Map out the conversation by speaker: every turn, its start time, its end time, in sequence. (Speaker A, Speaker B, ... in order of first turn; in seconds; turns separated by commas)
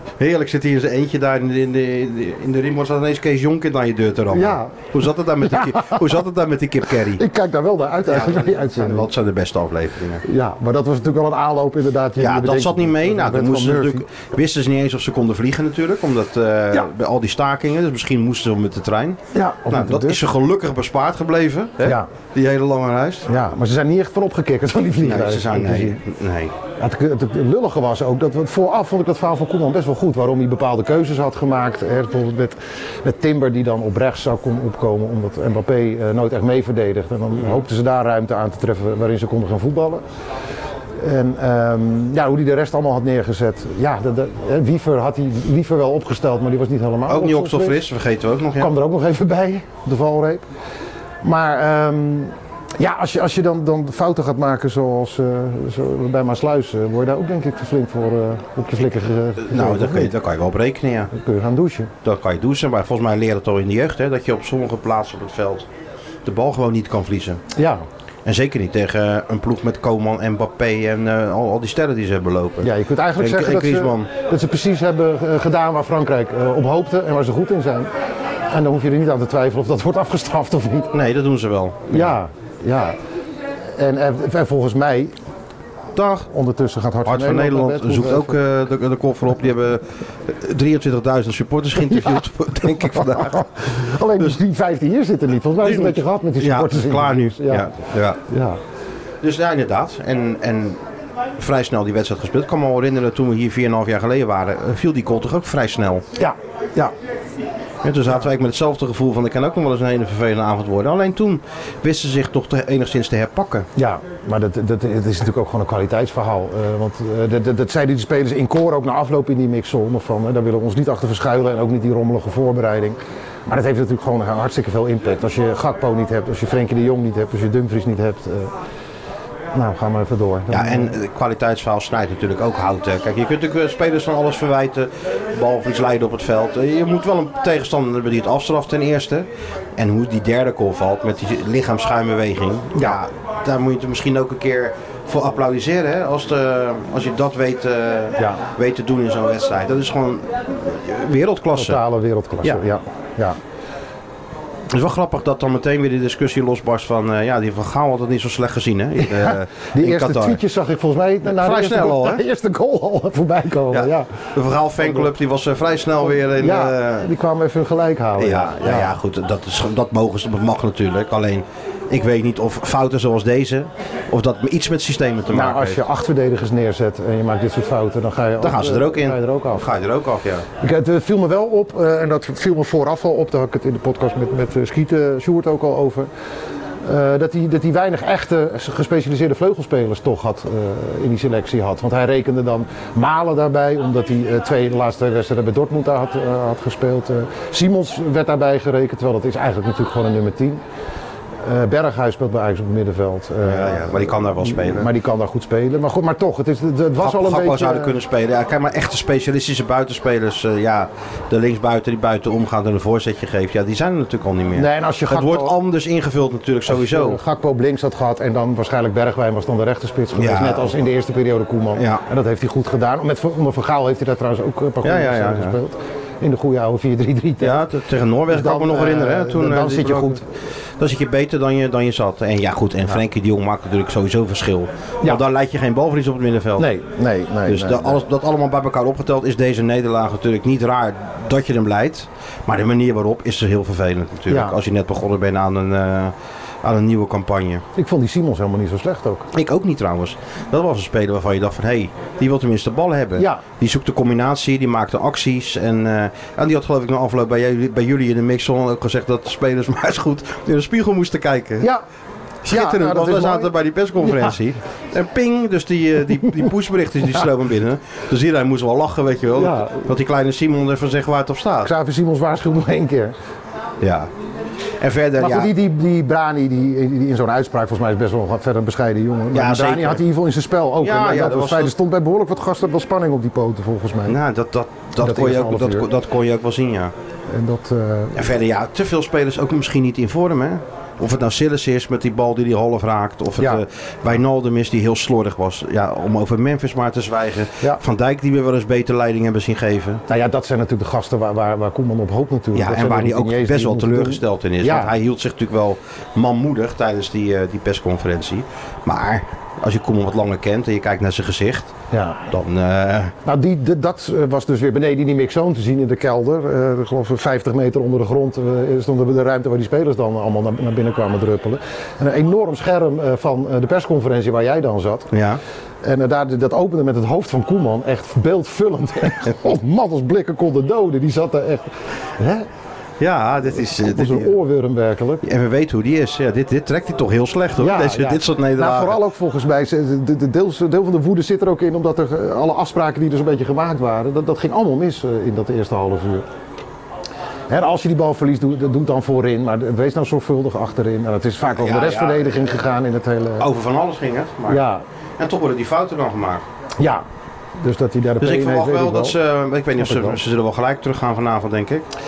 Speaker A: 0.2-7.2, Speaker B: 4.3-4.8, Speaker B: 5.4-6.1, Speaker B: 7.1-9.1, Speaker A: 8.1-10.2, Speaker B: 10.2-14.1, Speaker A: 12.2-23.3, Speaker B: 19.3-20.2, Speaker B: 21.8-22.1, Speaker B: 23.3-26.0, Speaker A: 25.0-26.5, Speaker B: 26.8-40.0, Speaker B: 41.0-47.8, Speaker A: 47.1-48.7, Speaker B: 48.6-50.4, Speaker B: 51.2-60.1, Speaker A: 59.5-61.1, Speaker B: 61.1-61.9, Speaker A: 62.0-65.7, Speaker A: 66.2-67.4, Speaker B: 67.5-67.8, Speaker A: 68.2-74.1, Speaker B: 72.6-77.9, Speaker B: 78.5-80.9, Speaker A: 80.9-82.2, Speaker B: 81.9-83.0, Speaker B: 83.8-85.1, Speaker A: 85.9-86.3, Speaker B: 86.3-88.3, Speaker A: 87.0-93.4, Speaker B: 91.8-98.6, Speaker A: 95.6-98.2, Speaker A: 99.2-100.8, Speaker A: 101.4-106.0, Speaker B: 106.2-106.9, Speaker A: 107.8-113.7, Speaker B: 113.8-128.5, Speaker B: 129.5-130.9, Speaker A: 130.5-151.8, Speaker B: 142.7-143.0, Speaker B: 148.2-148.4, Speaker B: 151.5-153.4, Speaker A: 154.7-160.4, Speaker B: 159.0-164.1, Speaker A: 161.2-162.2, Speaker A: 163.7-167.1, Speaker B: 164.8-165.1, Speaker B: 166.2-168.9, Speaker A: 168.2-175.8, Speaker B: 175.3-179.7, Speaker A: 178.4-180.5, Speaker B: 180.6-186.1, Speaker B: 186.8-200.6, Speaker B: 201.4-208.0, Speaker A: 203.4-204.9, Speaker A: 207.0-217.2, Speaker B: 214.5-215.6, Speaker B: 216.7-227.6, Speaker A: 220.1-220.8, Speaker A: 221.8-222.0, Speaker A: 224.8-225.6, Speaker A: 227.4-230.2, Speaker B: 228.3-230.3, Speaker A: 230.8-236.7, Speaker B: 236.6-238.0, Speaker A: 237.4-247.6, Speaker B: 244.3-244.6, Speaker B: 247.7-249.3, Speaker A: 249.3-261.7, Speaker B: 253.2-253.4, Speaker A: 262.4-271.7, Speaker B: 262.5-264.3, Speaker B: 269.4-269.9, Speaker B: 271.6-273.1, Speaker A: 273.8-274.1, Speaker A: 274.8-275.5, Speaker B: 275.2-284.2, Speaker A: 279.3-280.0, Speaker A: 280.8-281.7, Speaker A: 284.1-286.9, Speaker B: 285.0-285.9, Speaker B: 287.3-288.2, Speaker A: 288.1-300.0, Speaker B: 300.1-304.9, Speaker A: 302.5-311.7, Speaker B: 311.9-312.4, Speaker A: 312.3-313.1, Speaker B: 313.2-325.1, Speaker A: 325.1-325.4, Speaker B: 325.8-332.4, Speaker A: 333.0-334.4, Speaker B: 333.6-335.2, Speaker A: 335.2-339.0, Speaker B: 337.6-346.2, Speaker B: 347.5-353.5, Speaker A: 351.4-352.5, Speaker A: 353.4-354.6, Speaker B: 354.5-354.8, Speaker A: 355.2-356.4, Speaker B: 356.8-357.0, Speaker B: 357.6-359.1, Speaker A: 358.2-361.9, Speaker B: 359.8-360.2